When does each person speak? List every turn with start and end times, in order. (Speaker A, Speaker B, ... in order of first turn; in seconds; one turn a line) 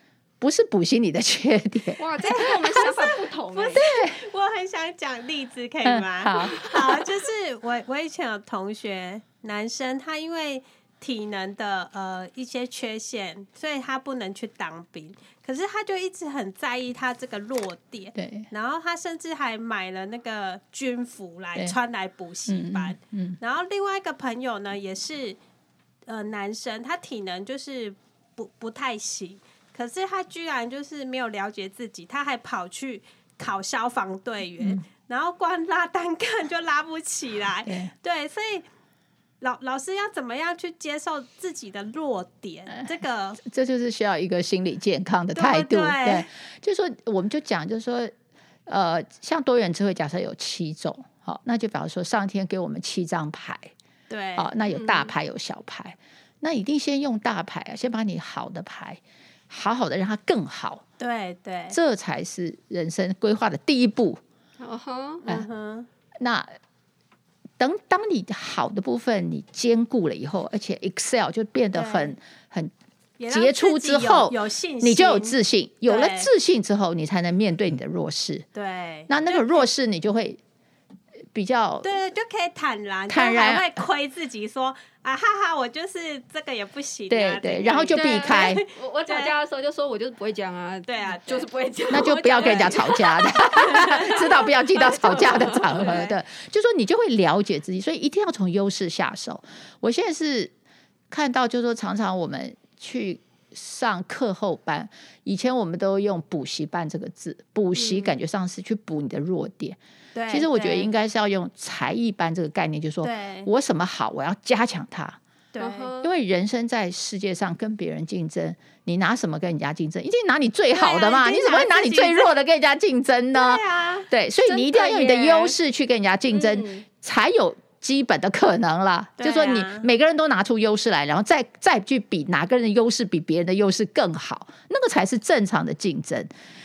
Speaker A: 0.4-2.0
Speaker B: 2.0-3.8
Speaker C: 2.2-25.4
Speaker A: 3.8-4.2
Speaker A: 5.8-6.6
Speaker A: 18.1-18.5
Speaker A: 22.5-23.4
Speaker C: 26.1-38.6
Speaker A: 34.6-34.9
Speaker A: 37.7-37.9
Speaker C: 39.4-43.4
Speaker A: 43.4-48.1
Speaker C: 45.4-46.3
Speaker A: 48.7-53.7
Speaker C: 54.1-54.5
Speaker A: 54.4-60.8
Speaker B: 54.7-55.1
Speaker C: 61.0-61.8
Speaker A: 61.7-64.2
Speaker B: 64.6-65.2
Speaker C: 65.2-65.9
Speaker A: 66.2-66.5
Speaker A: 67.6-72.7
Speaker C: 71.7-72.1
Speaker C: 73.2-76.3
Speaker A: 73.3-78.5
Speaker C: 78.5-79.7
Speaker A: 79.1-80.4
Speaker A: 81.3-81.9
Speaker C: 81.8-89.3
Speaker A: 83.1-83.8
Speaker A: 87.1-88.7
Speaker B: 87.9-95.9
Speaker C: 90.9-93.0
Speaker A: 91.9-100.5
Speaker C: 93.5-96.2
Speaker A: 101.1-109.8
Speaker B: 107.7-108.2
Speaker C: 110.2-110.9
Speaker A: 110.3-115.2
Speaker C: 113.0-113.5
Speaker C: 115.5-115.9
Speaker B: 115.6-116.1
Speaker A: 116.0-136.3
Speaker C: 120.7-122.3
Speaker C: 123.3-124.1
Speaker B: 124.5-125.6
Speaker B: 126.3-126.9
Speaker C: 129.2-129.9